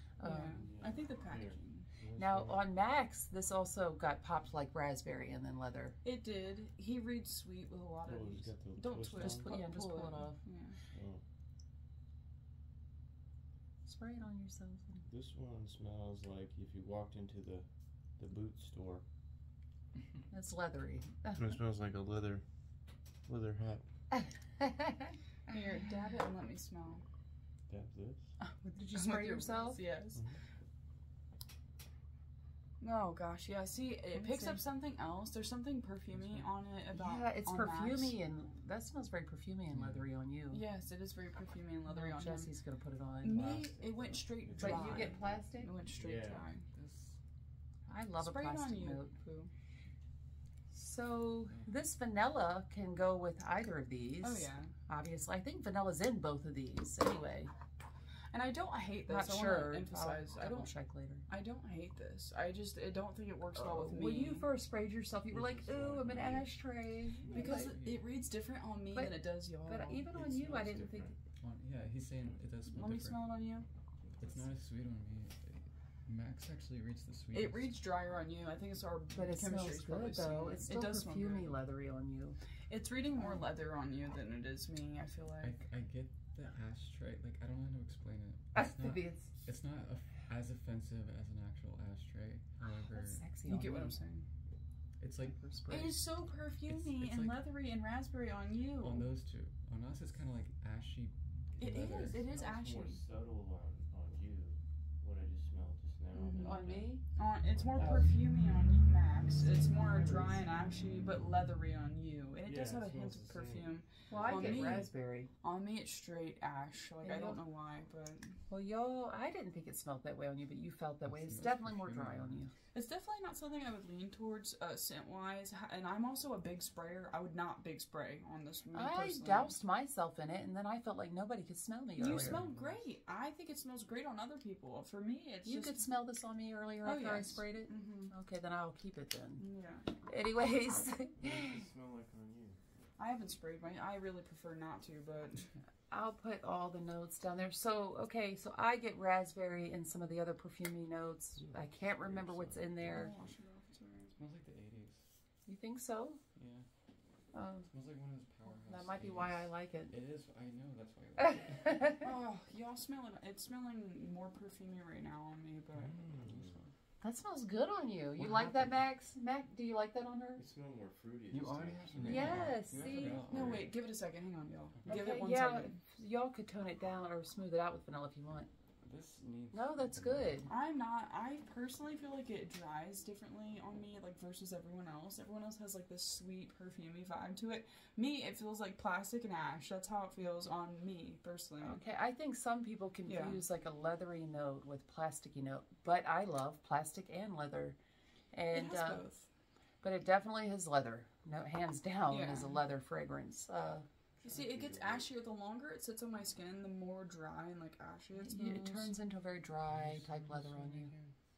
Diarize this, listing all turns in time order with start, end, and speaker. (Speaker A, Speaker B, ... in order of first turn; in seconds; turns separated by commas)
Speaker A: 0.2-0.6, Speaker B: 0.2-1.9, Speaker C: 0.5-2.6, Speaker A: 2.2-6.0, Speaker B: 6.0-10.8, Speaker C: 8.0-9.6, Speaker A: 9.2-10.4, Speaker C: 10.9-11.2, Speaker A: 13.8-15.0, Speaker C: 15.0-19.0, Speaker A: 20.3-21.6, Speaker C: 21.3-22.4, Speaker C: 23.2-23.9, Speaker A: 24.1-25.1, Speaker B: 25.5-27.0, Speaker C: 27.7-28.3, Speaker B: 28.4-30.2, Speaker A: 28.7-29.8, Speaker B: 32.8-38.1, Speaker A: 34.1-34.6, Speaker D: 36.1-36.5, Speaker A: 36.9-40.6, Speaker D: 39.7-40.1, Speaker B: 40.5-42.5, Speaker A: 41.9-43.6, Speaker B: 43.2-46.6, Speaker C: 43.3-46.5, Speaker A: 44.6-45.7, Speaker D: 46.7-47.2, Speaker A: 47.9-49.1, Speaker B: 48.2-49.5, Speaker A: 50.7-57.5, Speaker B: 54.2-54.7, Speaker B: 58.3-60.7, Speaker A: 59.1-61.2, Speaker B: 61.3-64.5, Speaker A: 63.8-67.8, Speaker C: 65.3-66.5, Speaker D: 67.2-68.0, Speaker B: 67.3-70.0, Speaker A: 68.9-71.1, Speaker C: 70.1-71.2, Speaker D: 71.4-73.2, Speaker B: 72.7-73.7, Speaker D: 74.2-77.7, Speaker B: 77.3-81.5, Speaker A: 79.2-82.4, Speaker B: 82.7-85.5, Speaker A: 83.2-83.4, Speaker D: 85.4-93.3, Speaker A: 88.5-89.3, Speaker A: 92.6-94.0, Speaker B: 93.5-94.3, Speaker D: 95.0-95.4, Speaker A: 95.3-96.0, Speaker B: 95.7-99.0, Speaker D: 96.7-97.5, Speaker D: 98.8-102.2, Speaker C: 101.6-108.1, Speaker B: 101.6-103.0, Speaker B: 106.1-118.4, Speaker A: 106.4-107.0, Speaker A: 107.8-108.1, Speaker A: 109.9-110.3, Speaker C: 112.4-114.9, Speaker A: 114.1-115.3, Speaker A: 117.0-117.4, Speaker A: 118.5-122.5, Speaker D: 121.0-122.4, Speaker B: 122.7-129.5, Speaker A: 128.7-132.4, Speaker B: 132.0-135.9, Speaker D: 132.0-132.8, Speaker A: 135.4-139.4, Speaker B: 136.8-138.1, Speaker B: 139.4-139.9, Speaker A: 140.0-141.6, Speaker C: 141.2-142.6, Speaker B: 143.0-145.5, Speaker A: 145.9-153.1, Speaker D: 152.1-153.1, Speaker B: 152.9-154.2, Speaker D: 154.2-155.2, Speaker A: 155.4-156.2, Speaker D: 156.3-156.7, Speaker A: 157.3-157.7, Speaker D: 157.7-161.9, Speaker A: 158.7-159.9, Speaker B: 162.0-165.9, Speaker D: 165.8-166.7, Speaker C: 165.9-166.6, Speaker A: 167.0-170.4, Speaker D: 168.2-168.7, Speaker C: 170.3-173.7, Speaker D: 171.3-173.7, Speaker A: 172.0-173.2, Speaker B: 173.3-175.8, Speaker A: 174.9-178.5, Speaker D: 178.8-180.1, Speaker A: 179.5-180.5, Speaker B: 180.5-191.8, Speaker A: 191.6-197.8, Speaker B: 193.1-193.4, Speaker A: 198.3-199.0, Speaker B: 198.5-199.3, Speaker A: 199.8-203.8, Speaker B: 202.1-202.6, Speaker C: 204.2-205.1, Speaker B: 204.2-208.9, Speaker A: 208.2-210.9, Speaker D: 209.7-211.0